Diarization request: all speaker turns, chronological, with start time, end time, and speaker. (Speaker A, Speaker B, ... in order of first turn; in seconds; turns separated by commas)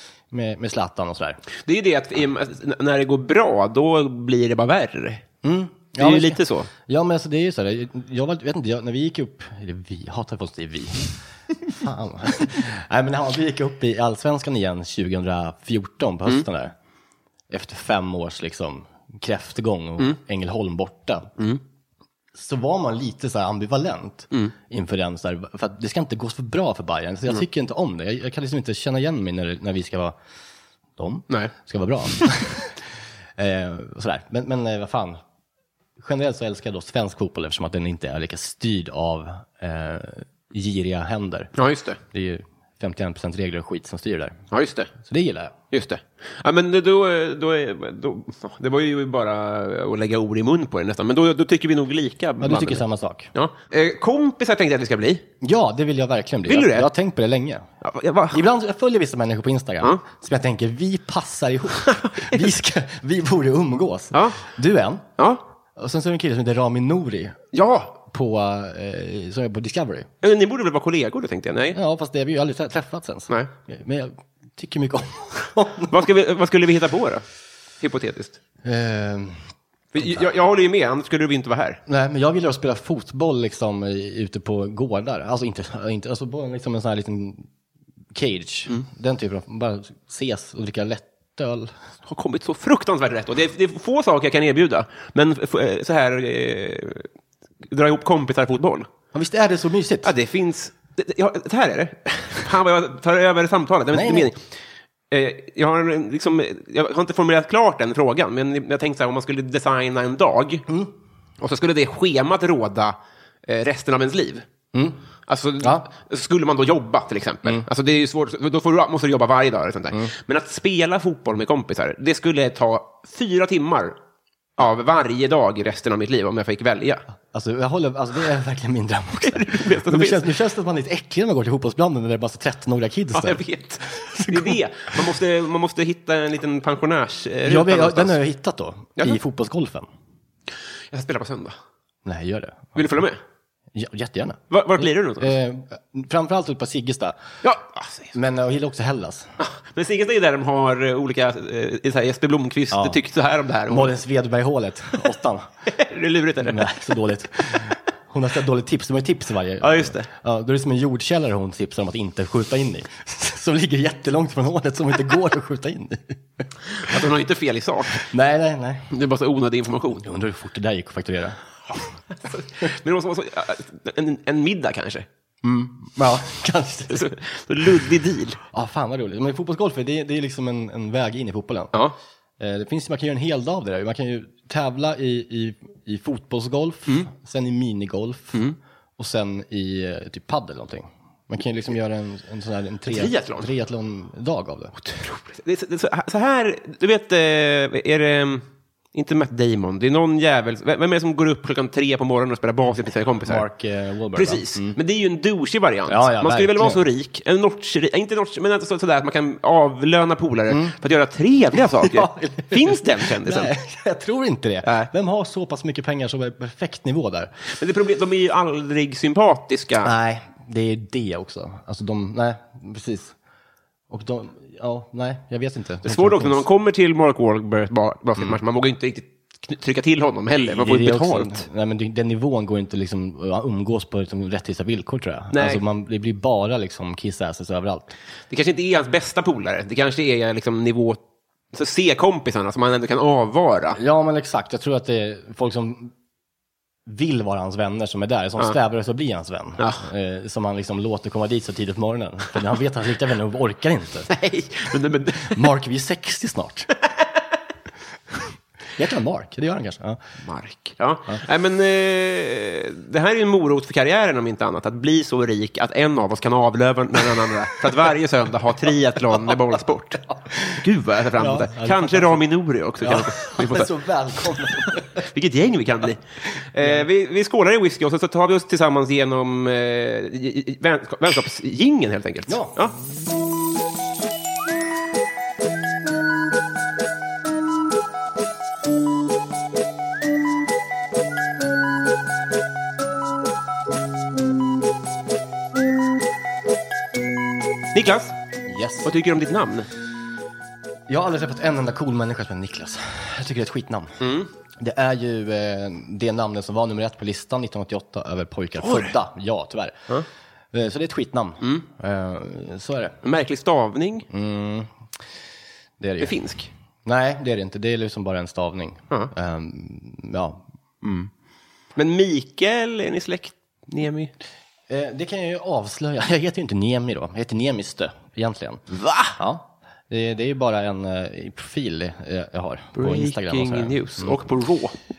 Speaker A: 0.3-1.4, Speaker B: 1.6-5.2, Speaker A: 5.4-11.1, Speaker B: 6.0-6.7, Speaker A: 11.7-16.7, Speaker A: 17.5-21.3, Speaker A: 22.3-30.1, Speaker A: 31.0-32.8, Speaker A: 33.4-35.2, Speaker A: 36.0-44.4, Speaker B: 41.5-42.0, Speaker B: 44.5-44.9, Speaker A: 45.0-45.5, Speaker B: 45.7-55.2, Speaker A: 52.4-53.3, Speaker A: 55.4-57.7, Speaker B: 56.5-56.9, Speaker B: 57.8-58.4, Speaker A: 58.3-65.1, Speaker B: 61.9-62.4, Speaker B: 64.1-64.4, Speaker B: 65.2-65.4, Speaker A: 65.8-67.4, Speaker B: 67.5-68.0, Speaker A: 68.0-70.1, Speaker B: 70.2-71.8, Speaker A: 71.7-76.0, Speaker B: 75.9-77.2, Speaker B: 77.8-78.4, Speaker A: 78.6-79.4, Speaker B: 79.9-81.8, Speaker A: 80.0-80.2, Speaker A: 81.9-87.5, Speaker A: 88.1-91.7, Speaker B: 92.0-97.1, Speaker B: 97.7-98.9, Speaker A: 99.1-100.1, Speaker B: 100.0-104.4, Speaker A: 103.9-104.3, Speaker B: 105.1-110.7, Speaker B: 111.4-114.4, Speaker A: 114.7-115.0, Speaker B: 115.3-124.0, Speaker A: 115.6-115.9, Speaker B: 124.6-127.0, Speaker A: 127.3-134.6, Speaker B: 129.2-130.2, Speaker B: 133.1-138.2, Speaker A: 137.4-139.9, Speaker B: 140.9-141.6, Speaker A: 142.0-142.8, Speaker B: 142.8-143.2, Speaker A: 143.7-147.2, Speaker B: 144.5-145.3, Speaker B: 147.4-148.1, Speaker A: 148.1-149.4, Speaker B: 149.4-153.9, Speaker A: 152.7-153.0, Speaker A: 153.7-155.5, Speaker B: 155.7-156.8, Speaker A: 156.4-166.2, Speaker B: 159.6-160.1, Speaker B: 166.7-168.1, Speaker A: 167.9-168.9, Speaker B: 168.9-170.0, Speaker A: 169.9-171.4, Speaker B: 172.2-175.1, Speaker A: 175.4-177.1, Speaker B: 176.9-178.4, Speaker A: 178.5-181.8, Speaker A: 182.4-194.8, Speaker B: 192.9-193.5, Speaker B: 194.8-203.4, Speaker A: 203.2-204.8, Speaker B: 204.1-213.5, Speaker A: 205.9-206.8, Speaker A: 210.5-210.7, Speaker A: 211.5-217.3, Speaker B: 214.6-214.9, Speaker B: 217.4-219.9, Speaker A: 219.8-223.1, Speaker A: 223.9-226.4, Speaker B: 225.8-231.4, Speaker A: 230.4-237.9, Speaker B: 235.3-235.6, Speaker B: 238.3-241.0, Speaker B: 241.5-243.8, Speaker A: 243.8-245.9, Speaker A: 246.8-254.1, Speaker B: 254.1-255.5, Speaker A: 255.1-256.7, Speaker A: 258.8-260.0, Speaker B: 260.2-273.7, Speaker A: 269.1-269.4, Speaker A: 270.1-272.2, Speaker A: 272.8-275.0, Speaker B: 274.9-282.7, Speaker A: 282.3-282.9, Speaker B: 297.7-298.1, Speaker A: 298.4-298.9, Speaker B: 298.8-299.7, Speaker A: 300.9-304.0, Speaker B: 304.0-304.3, Speaker A: 304.6-309.9, Speaker B: 308.6-308.9, Speaker A: 310.5-313.0, Speaker B: 313.0-314.1, Speaker A: 314.1-314.7, Speaker A: 315.8-316.2, Speaker B: 316.0-316.5, Speaker A: 316.8-321.1, Speaker B: 321.8-324.1, Speaker A: 324.7-334.2, Speaker B: 328.7-329.2, Speaker B: 332.8-334.8